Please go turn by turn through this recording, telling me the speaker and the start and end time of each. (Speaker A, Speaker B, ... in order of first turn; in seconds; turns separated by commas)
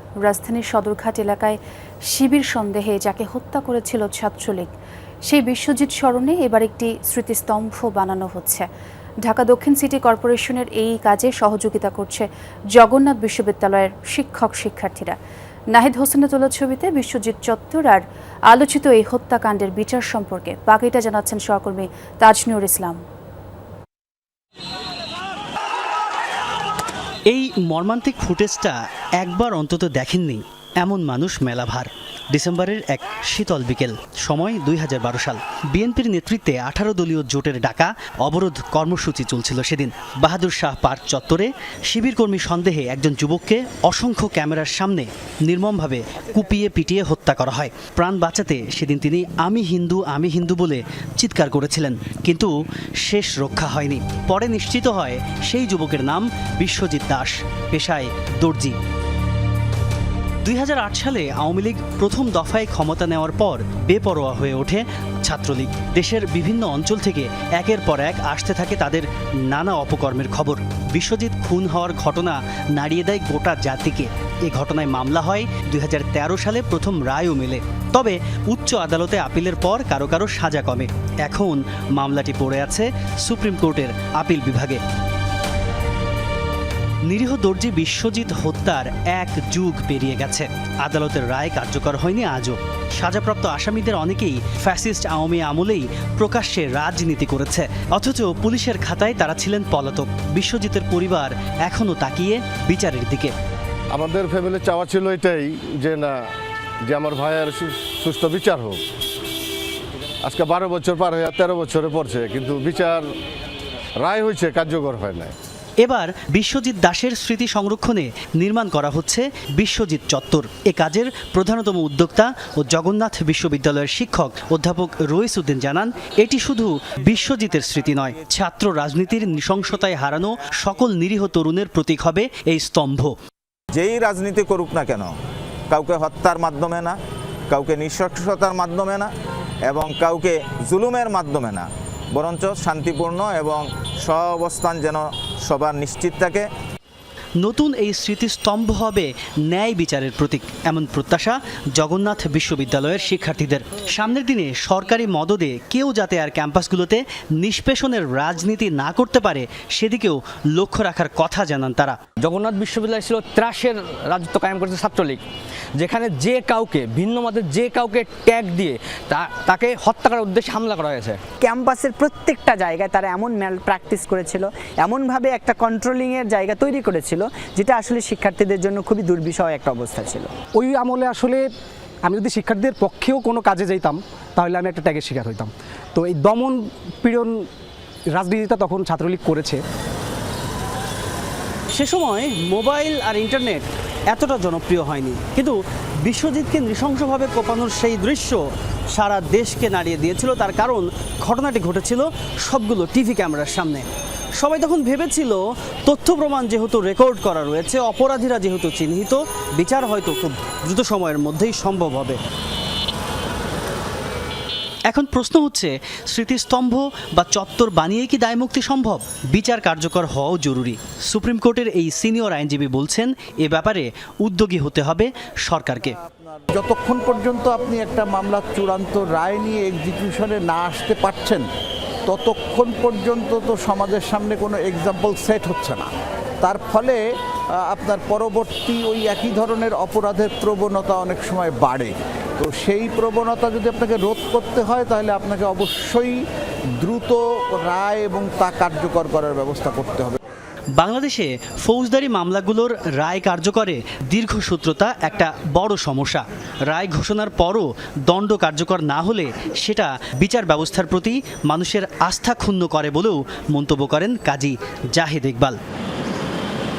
Speaker A: 0.2-1.6, Speaker A: 2.1-4.7, Speaker A: 5.2-8.7, Speaker A: 9.2-15.2, Speaker A: 15.7-23.0, Speaker B: 27.3-52.5, Speaker B: 53.0-58.8, Speaker B: 60.4-84.8, Speaker B: 87.0-103.3, Speaker C: 103.9-106.2, Speaker C: 106.9-108.8, Speaker C: 110.2-113.0, Speaker C: 114.0-115.3, Speaker B: 115.8-133.1, Speaker D: 133.7-135.1, Speaker D: 135.7-137.0, Speaker D: 137.5-139.1, Speaker D: 139.7-146.4, Speaker B: 147.4-162.0, Speaker E: 162.2-165.2, Speaker E: 165.8-171.2, Speaker F: 171.4-180.3, Speaker G: 180.5-181.5, Speaker G: 182.1-187.4, Speaker G: 188.1-189.6, Speaker B: 191.7-203.8, Speaker B: 204.4-212.2, Speaker B: 214.9-226.0, Speaker H: 226.5-231.4, Speaker H: 232.1-235.9, Speaker H: 236.4-237.0, Speaker H: 237.6-246.2, Speaker H: 246.8-250.2, Speaker B: 250.8-265.6